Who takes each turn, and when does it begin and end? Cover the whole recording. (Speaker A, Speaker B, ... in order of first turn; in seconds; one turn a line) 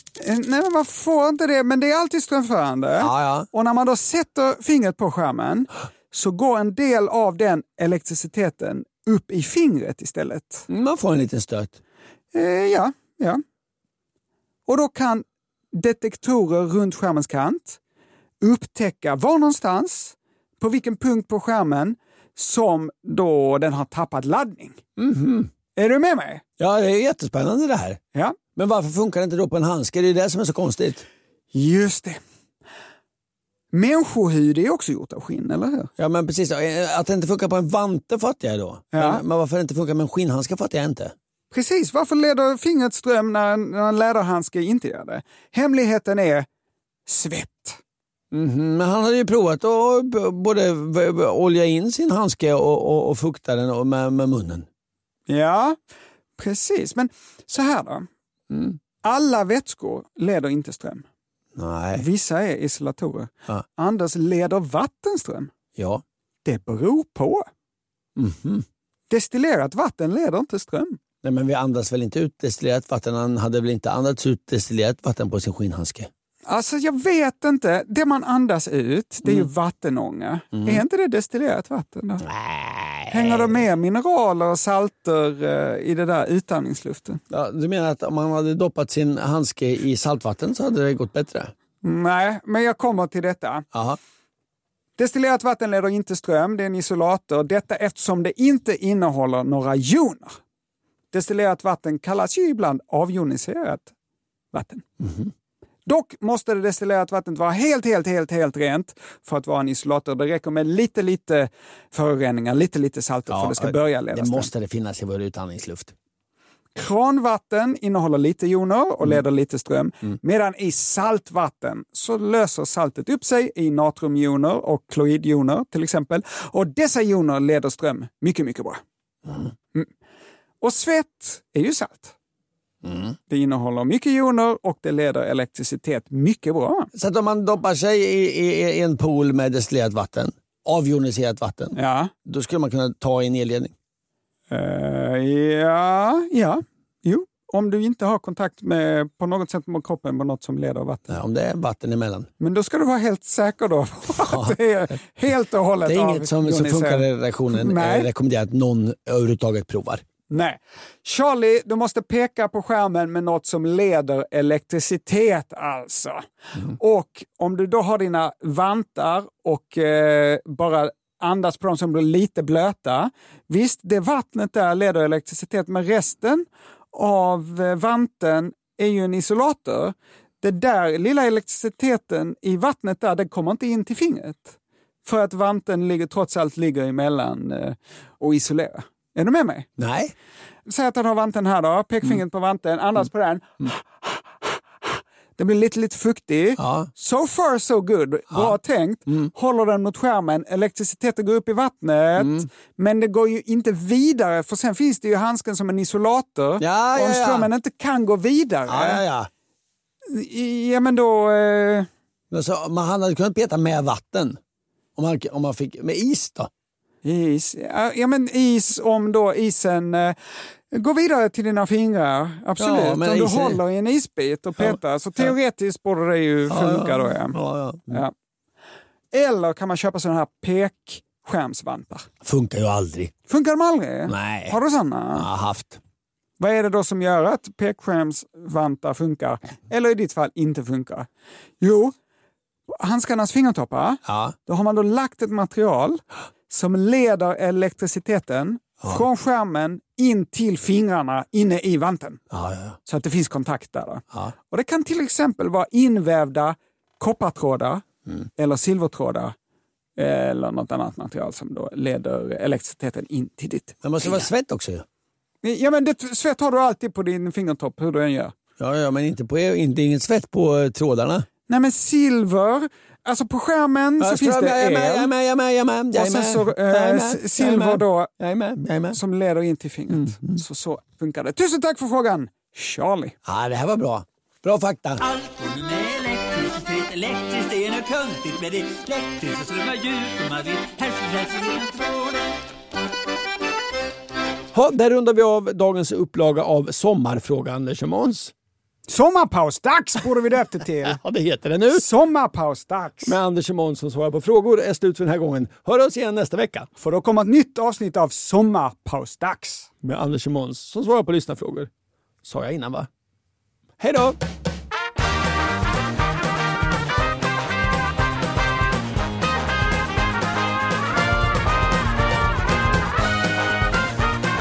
Speaker A: 0.2-10.7
Speaker B: 3.0-3.5
Speaker B: 10.7-11.8
Speaker A: 12.3-13.4
Speaker A: 14.7-17.8
Speaker A: 18.4-24.8
Speaker B: 25.0-25.5
Speaker A: 25.7-26.4
Speaker B: 26.6-28.0
Speaker B: 28.6-31.1
Speaker A: 31.5-32.2
Speaker A: 33.7-35.9
Speaker B: 36.0-41.1
Speaker A: 38.9-39.2
Speaker A: 41.5-46.5
Speaker A: 47.1-47.8
Speaker B: 48.3-54.7
Speaker A: 55.3-55.8
Speaker A: 56.4-58.1
Speaker B: 58.5-58.8
Speaker A: 59.0-61.0
Speaker B: 61.5-62.0
Speaker A: 62.0-65.5
Speaker B: 65.7-66.0
Speaker A: 66.4-67.5
Speaker B: 68.2-68.7
Speaker A: 69.1-71.0
Speaker B: 71.2-76.1
Speaker A: 76.5-82.2
Speaker B: 79.2-79.5
Speaker B: 80.5-80.8
Speaker B: 82.2-83.6
Speaker A: 83.1-87.2
Speaker B: 87.3-91.5
Speaker A: 91.8-93.6
Speaker B: 93.7-94.0
Speaker A: 95.0-100.4
Speaker A: 101.1-103.9
Speaker A: 104.5-104.8
Speaker B: 105.0-105.3
Speaker A: 105.8-114.5
Speaker B: 113.3-115.9
Speaker A: 116.7-128.8
Speaker B: 129.3-129.5
Speaker A: 130.6-132.1
Speaker B: 132.8-133.2
Speaker A: 133.3-136.9
Speaker B: 136.9-143.7
Speaker A: 141.8-142.1
Speaker A: 144.5-151.2
Speaker B: 151.1-152.3
Speaker A: 152.4-158.1
Speaker B: 154.2-154.6
Speaker B: 155.8-160.0
Speaker A: 160.3-189.7
Speaker B: 189.8-190.1
Speaker A: 190.7-209.0
Speaker B: 196.6-196.9
Speaker B: 202.2-202.5
Speaker B: 206.6-207.5
Speaker B: 208.7-209.3
Speaker A: 210.1-211.9
Speaker B: 212.3-214.4
Speaker B: 214.9-216.5
Speaker A: 217.0-220.1
Speaker A: 220.7-227.4
Speaker B: 222.6-223.6
Speaker B: 224.6-225.3
Speaker B: 226.5-228.0
Speaker A: 229.1-232.1
Speaker B: 232.2-233.1
Speaker A: 233.3-235.3
Speaker B: 234.1-234.6
Speaker B: 235.1-235.8
Speaker A: 236.4-241.1
Speaker A: 241.6-241.9
Speaker A: 242.7-252.2
Speaker B: 244.1-244.3
Speaker B: 252.3-252.8
Speaker A: 252.9-257.8
Speaker A: 258.4-259.3
Speaker A: 260.0-264.3
Speaker B: 263.8-264.9
Speaker A: 265.4-268.3
Speaker B: 268.6-271.3
Speaker A: 271.5-275.1
Speaker B: 274.0-279.0
Speaker A: 275.9-278.1
Speaker A: 278.9-283.1
Speaker B: 279.9-280.4
Speaker B: 283.2-285.1
Speaker C: 285.1-292.0
Speaker B: 294.5-298.3
Speaker A: 298.9-301.0
Speaker B: 300.8-301.9
Speaker A: 301.7-303.2
Speaker B: 303.0-306.7
Speaker A: 306.8-309.7
Speaker B: 309.8-311.7
Speaker B: 312.2-312.9
Speaker B: 313.8-314.2